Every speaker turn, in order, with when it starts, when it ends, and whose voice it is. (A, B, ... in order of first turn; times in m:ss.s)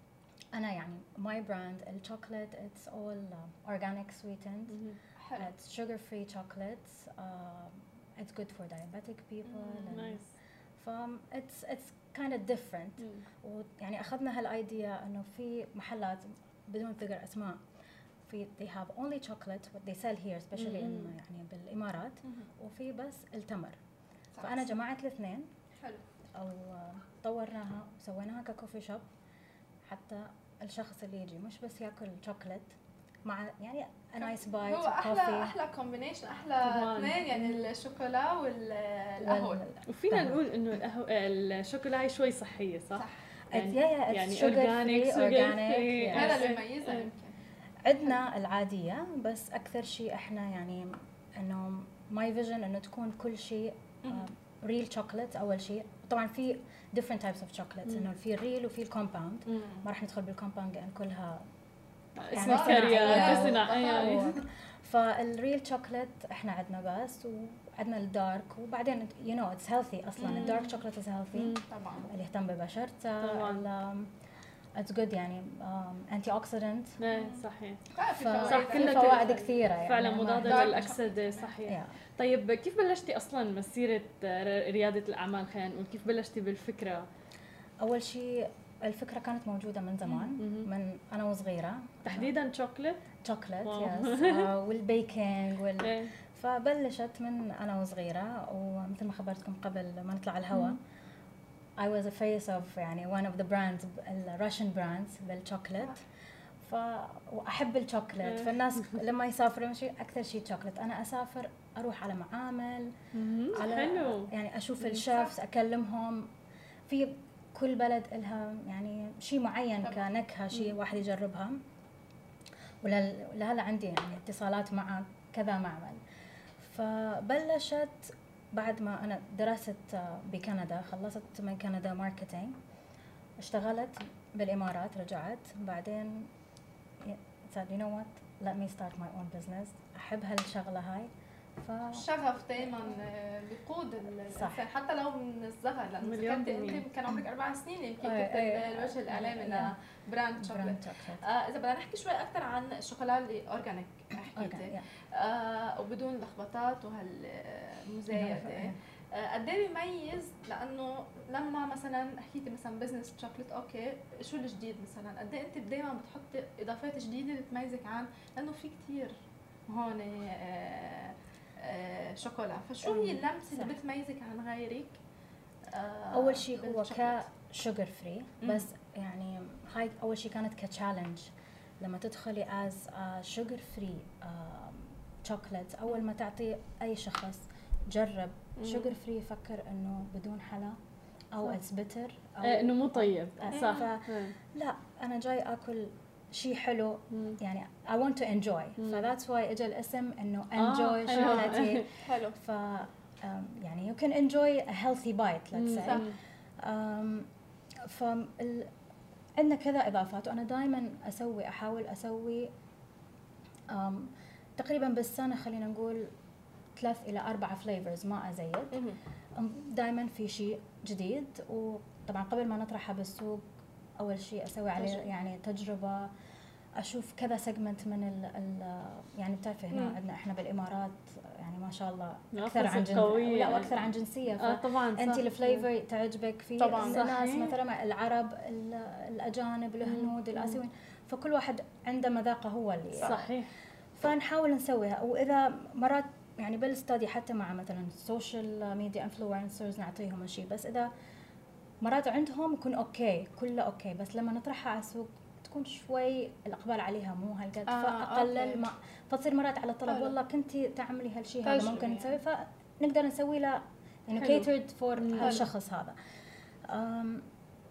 0:00.5-0:04.8 A
0:04.7-0:05.0 B
0:05.2-0:05.5 C
0:05.4-0:10.2 A
0:09.9-0:10.3 B
0:10.8-0:17.6 A
0:13.0-0:13.2 B
0:18.3-0:23.8 A
0:20.6-0:21.1 B
0:24.4-0:24.7 C
0:24.4-0:25.5 A
0:25.8-0:26.0 C
0:26.3-0:29.1 A
0:29.8-0:32.7 A
0:33.2-0:35.5 A
0:34.2-0:39.6 C
0:36.6-0:37.6 B
0:39.2-0:40.4 A
0:39.9-0:47.1 B
0:42.9-0:43.2 C
0:43.5-0:46.4 A
0:46.1-0:47.4 C
0:47.8-1:01.5 A
0:54.0-0:54.3 C
1:02.2-1:04.4 B
1:02.3-1:14.1 A
1:02.3-1:04.4 C
1:10.2-1:10.6 C
1:10.2-1:10.7 B
1:11.4-1:11.6 B
1:11.7-1:12.1 C
1:13.2-1:13.6 B
1:14.8-1:17.0 A
1:17.0-1:17.8 B
1:17.1-1:17.4 C
1:18.0-1:19.5 C
1:18.0-1:21.0 A
1:18.4-1:27.1 B
1:20.4-1:21.5 C
1:21.6-1:21.9 A
1:27.8-1:32.3 A
1:30.0-1:30.7 B
1:32.0-1:33.0 B
1:33.2-1:40.8 A
1:33.6-1:34.5 B
1:35.8-1:36.1 B
1:40.5-1:40.8 B
1:41.8-1:46.0 A
1:46.6-1:52.9 A
1:48.2-1:48.9 B
1:53.1-1:54.3 B
1:53.5-1:56.3 A
1:54.9-1:55.3 C
1:56.9-2:01.6 A
1:59.8-2:00.1 C
2:02.8-2:06.0 A
2:06.6-2:12.6 A
2:13.4-2:16.3 A
2:17.0-2:22.1 A
2:21.9-2:55.0 C
2:22.6-2:22.9 A
2:24.3-2:24.6 A
2:26.0-2:26.9 B
2:28.0-2:29.7 A
2:30.4-2:31.2 A
2:34.2-2:34.9 A
2:38.1-2:38.8 A
2:52.8-2:53.7 A
2:55.7-2:57.2 C
2:56.1-3:10.8 A
2:58.4-2:58.7 C
3:08.6-3:08.9 C
3:11.3-3:26.1 A
3:12.4-3:14.4 B
3:13.5-3:13.8 C
3:17.1-3:17.4 B
3:18.8-3:19.1 B
3:20.6-3:21.9 B
3:21.1-3:22.4 C
3:25.5-3:26.2 B
3:25.8-3:26.1 C
3:26.6-3:27.3 A
3:27.8-3:28.7 A
3:29.4-3:32.5 A
3:33.7-3:36.1 A
3:36.8-3:38.8 A
3:38.7-3:39.0 C
3:39.4-3:43.4 A
3:44.0-3:46.1 A
3:44.8-3:45.1 C
3:46.8-4:03.3 A
3:49.7-3:50.0 C
3:52.3-3:55.6 B
3:56.6-3:57.0 C
3:56.8-3:57.5 B
3:59.8-4:00.6 B
4:02.9-4:03.2 C
4:03.0-4:03.5 B
4:04.0-4:10.9 A
4:11.8-4:27.3 A
4:17.7-4:18.6 C
4:19.9-4:20.1 C
4:21.4-4:22.1 C
4:24.2-4:25.4 B
4:25.2-4:25.5 C